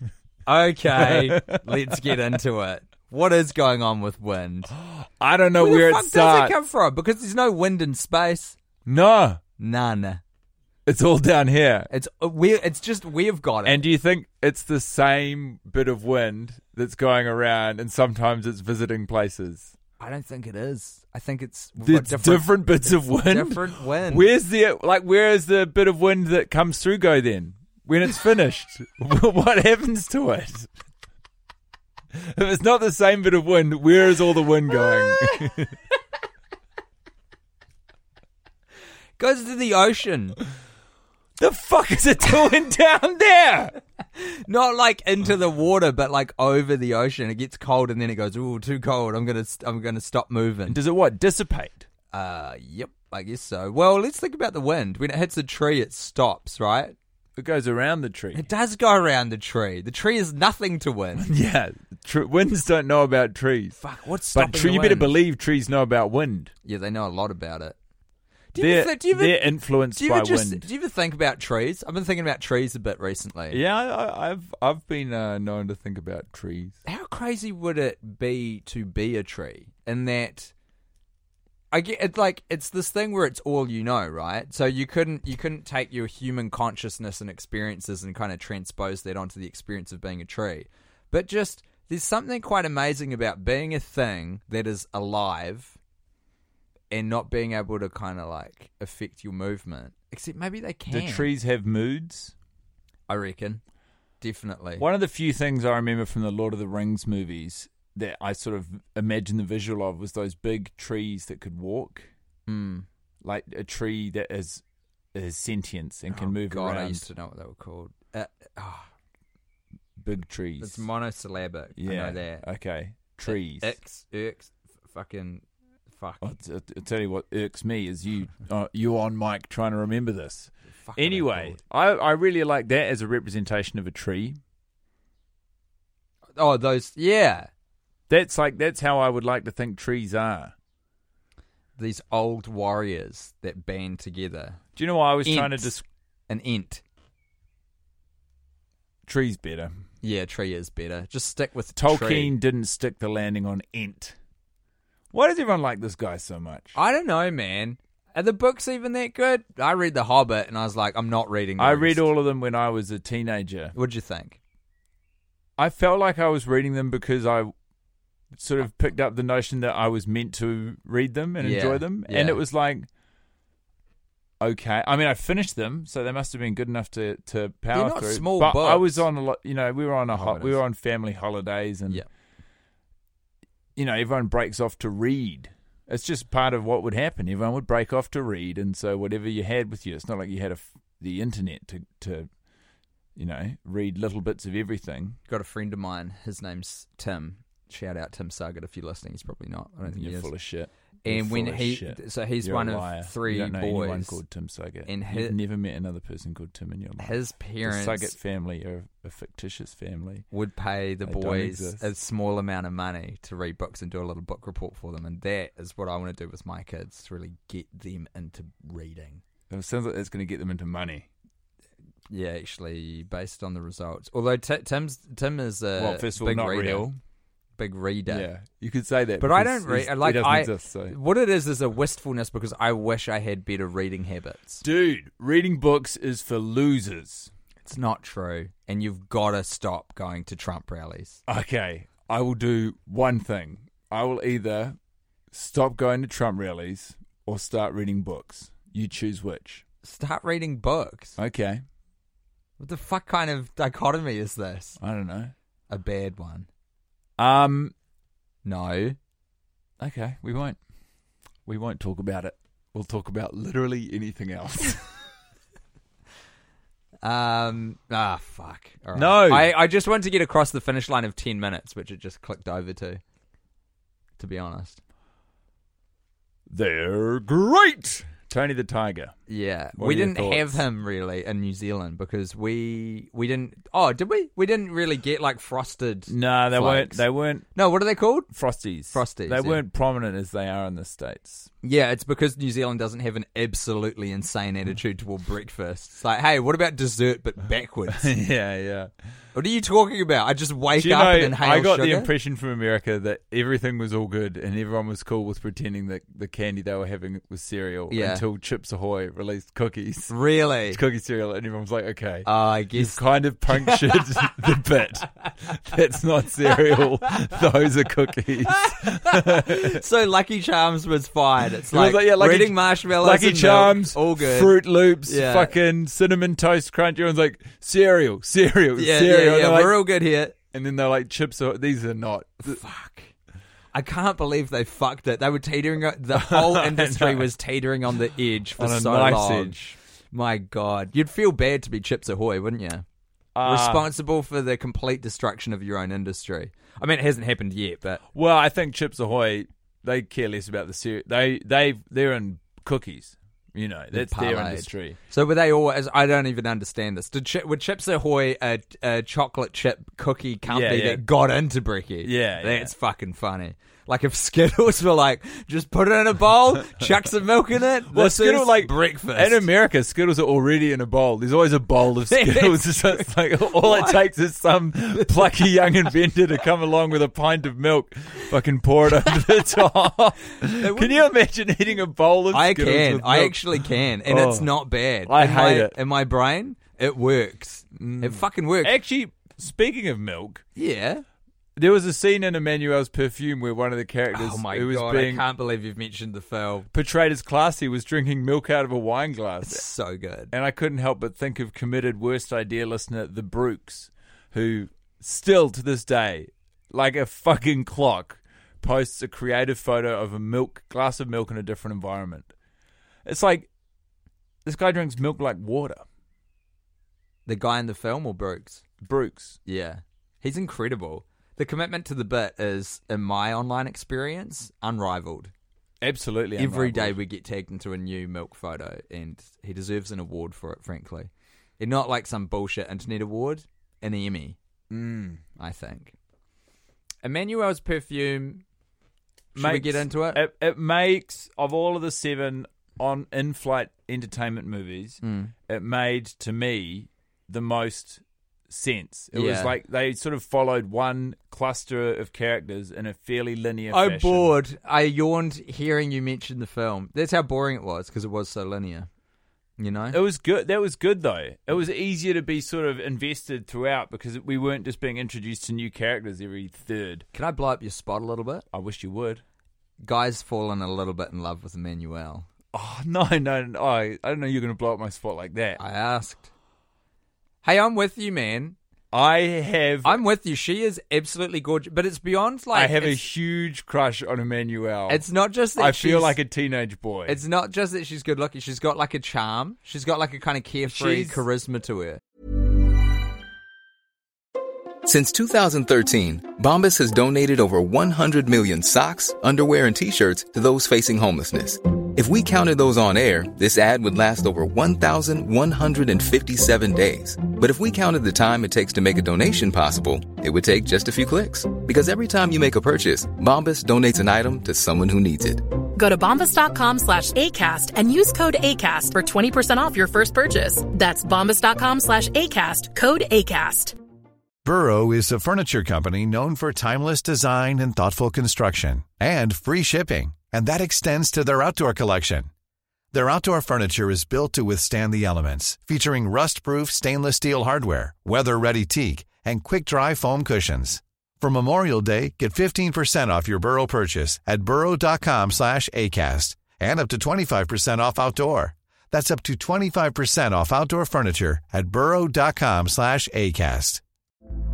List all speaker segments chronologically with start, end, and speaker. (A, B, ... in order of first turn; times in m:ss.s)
0:00.4-0:04.7 A
0:01.0-0:02.1 B
0:04.7-0:06.6 B
0:05.6-0:08.6 A
0:08.8-0:09.4 B
0:09.6-0:10.2 A
0:10.8-0:11.9 B
0:11.9-0:13.8 A
0:13.6-0:19.7 B
0:20.0-0:24.3 A
0:21.8-0:30.7 B
0:32.1-0:35.7 B
0:39.2-0:40.4 A
0:41.4-0:43.8 B
0:44.1-0:50.8 A
0:50.7-0:51.8 B
0:52.1-0:57.0 A
0:57.4-0:58.5 B
0:58.3-1:01.2 A
1:01.2-1:03.8 B
1:03.8-1:05.1 A
1:04.3-1:06.5 B
1:06.6-1:07.8 A
1:08.5-1:13.6 A
1:08.6-1:10.6 B
1:13.5-1:16.8 B
1:16.8-1:20.5 A
1:21.7-1:35.8 A
1:36.9-1:41.3 A
1:40.9-1:42.3 B
1:43.1-1:43.6 A
1:44.2-1:44.8 A
1:44.8-1:52.1 B
1:52.5-1:52.9 A
1:53.2-1:54.6 B
1:55.1-1:57.0 B
1:56.1-1:58.9 A
2:00.0-2:00.8 B
2:00.6-2:02.4 A
2:01.8-2:03.7 B
2:03.2-2:06.2 A
2:06.2-2:14.4 B
2:10.7-2:11.6 A
2:16.4-2:17.5 A
2:18.1-2:20.5 B
2:21.8-2:24.6 A
2:24.8-2:25.8 B
2:25.2-2:25.7 A
2:26.3-2:26.8 A
2:29.1-2:29.8 B
2:30.0-2:32.3 A
2:31.8-2:34.2 B
2:35.1-2:36.7 B
2:36.7-2:42.0 A
2:41.6-2:43.7 B
2:43.7-2:44.4 A
2:45.6-2:47.5 B
2:48.4-2:52.9 B
2:51.4-2:52.4 A
2:54.4-3:02.0 B
2:57.7-2:59.0 A
3:00.1-3:00.6 A
3:03.8-3:12.3 B
3:13.2-3:15.2 B
3:15.3-3:20.3 A
3:19.8-3:30.3 B
3:21.0-3:24.2 A
3:24.8-3:25.3 A
3:27.0-3:28.1 A
3:30.3-3:39.2 A
3:31.0-3:31.8 B
3:39.5-3:41.1 B
3:42.1-3:47.0 A
3:45.8-3:46.9 B
3:47.6-3:48.3 A
3:48.1-3:51.0 B
3:49.2-3:54.6 A
3:54.6-3:57.3 B
3:57.6-4:01.2 A
4:01.3-4:04.8 B
4:05.3-4:09.6 B
4:09.8-4:11.2 A
4:11.2-4:11.6 B
4:12.6-4:14.8 A
4:14.8-4:15.3 B
4:15.7-4:16.5 A
4:17.2-4:17.7 B
4:18.4-4:19.0 A
4:19.8-4:20.6 B
4:21.4-4:24.9 B
4:27.0-4:33.0 A
4:28.9-4:29.6 B
4:34.2-4:34.8 A
4:36.5-4:39.2 B
4:39.3-4:47.0 A
4:39.8-4:40.6 B
4:46.1-4:47.5 B
4:47.5-4:48.3 A
4:48.3-4:51.5 B
4:48.9-4:49.6 A
4:51.6-4:58.1 A
4:57.9-4:58.9 B
4:59.3-5:02.1 A
5:00.8-5:10.1 B
5:07.9-5:08.2 A
5:10.1-5:10.8 A
5:10.7-5:19.8 B
5:12.2-5:14.5 A
5:18.4-5:25.5 A
5:21.7-5:29.8 B
5:28.8-5:30.3 A
5:30.5-5:32.6 B
5:32.4-5:33.1 A
5:33.7-5:42.8 A
5:36.1-5:37.3 B
5:38.6-5:39.6 B
5:43.3-5:43.9 B
5:43.4-5:48.0 A
5:48.1-5:55.0 B
5:53.9-6:09.5 A
6:00.5-6:01.0 B
6:02.0-6:02.7 B
6:07.9-6:25.7 B
6:12.1-6:14.0 A
6:20.4-6:21.0 A
6:22.3-6:28.7 A
6:27.7-6:30.4 B
6:30.6-6:31.0 A
6:31.6-6:35.2 B
6:34.1-6:36.7 A
6:36.7-6:39.6 B
6:39.4-6:40.3 A
6:40.3-6:52.3 B
6:53.0-6:53.5 B
6:54.4-6:55.8 B
6:57.2-6:58.6 A
6:58.8-6:59.4 B
6:59.4-7:05.3 A
7:05.8-7:07.0 B
7:06.4-7:14.4 A
7:14.7-7:15.2 B
7:15.4-7:15.9 A
7:17.0-7:18.4 A
7:19.3-7:20.2 A
7:19.3-7:34.3 B
7:25.0-7:25.3 A
7:29.1-7:29.5 A
7:33.7-7:38.9 A
7:39.6-7:40.0 A
7:39.9-7:47.0 B
7:47.1-7:48.4 A
7:48.5-7:49.2 B
7:49.8-7:52.3 A
7:52.5-7:55.6 B
7:55.6-7:56.3 A
7:57.4-7:58.6 A
7:58.9-8:00.0 B
7:59.8-8:03.0 A
8:02.5-8:05.0 B
8:04.9-8:06.2 A
8:05.6-8:07.2 B
8:07.1-8:12.0 A
8:10.7-8:11.2 B
8:14.8-8:35.4 C
8:35.8-8:43.7 D
8:44.4-8:52.3 E
8:52.9-9:13.8 E